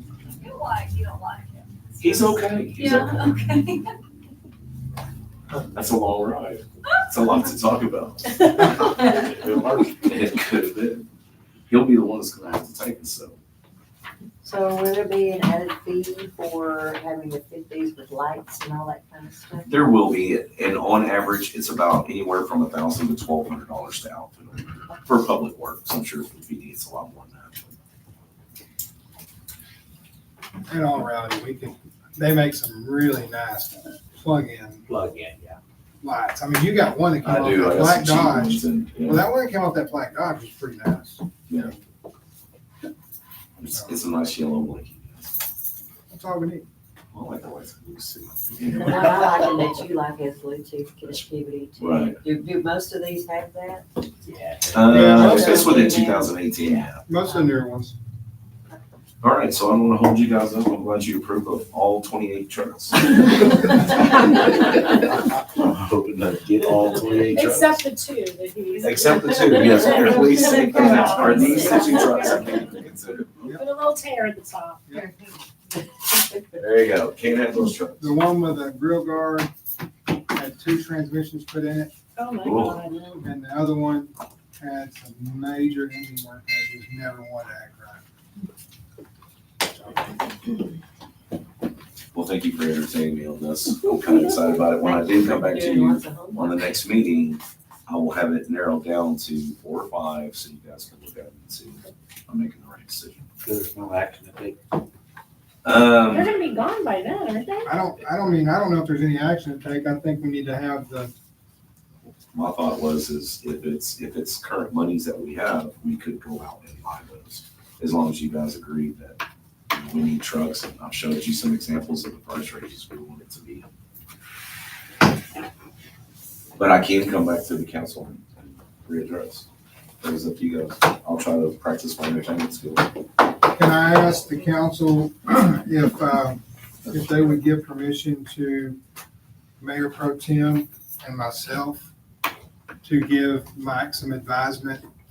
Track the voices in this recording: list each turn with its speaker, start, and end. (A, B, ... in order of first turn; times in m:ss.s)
0:00.4-0:03.9 A
0:02.0-0:03.3 B
0:05.7-0:11.1 B
0:11.7-0:13.4 B
0:14.4-0:19.8 C
0:19.6-0:27.8 B
0:30.7-0:34.9 D
0:34.9-0:35.6 E
0:36.0-0:41.8 D
0:37.2-0:39.3 B
0:43.6-0:45.3 B
0:46.1-0:46.7 D
0:47.1-0:49.2 B
0:48.7-0:53.9 C
0:51.8-0:52.2 B
0:54.2-0:55.4 E
0:54.7-0:57.0 B
0:54.8-0:56.0 D
0:55.1-0:57.5 C
0:57.0-0:58.0 D
0:59.2-1:07.8 B
1:07.3-1:12.7 F
1:08.8-1:13.4 B
1:10.3-1:12.4 C
1:11.1-1:11.4 D
1:13.6-1:14.8 F
1:14.9-1:15.4 C
1:16.6-1:18.2 B
1:18.0-1:19.5 D
1:20.3-1:21.9 D
1:22.2-1:23.1 F
1:22.4-1:22.8 B
1:23.2-1:28.0 D
1:32.1-1:43.3 B
1:34.0-1:36.7 C
1:43.4-1:44.7 E
1:45.6-1:46.3 B
1:46.1-1:47.7 F
1:47.6-1:51.1 D
1:52.3-1:59.2 B
1:59.7-2:03.7 B
2:06.6-2:09.5 B
2:10.0-2:12.9 B
2:13.5-2:18.8 D
2:19.6-2:21.9 D
2:22.8-2:24.8 D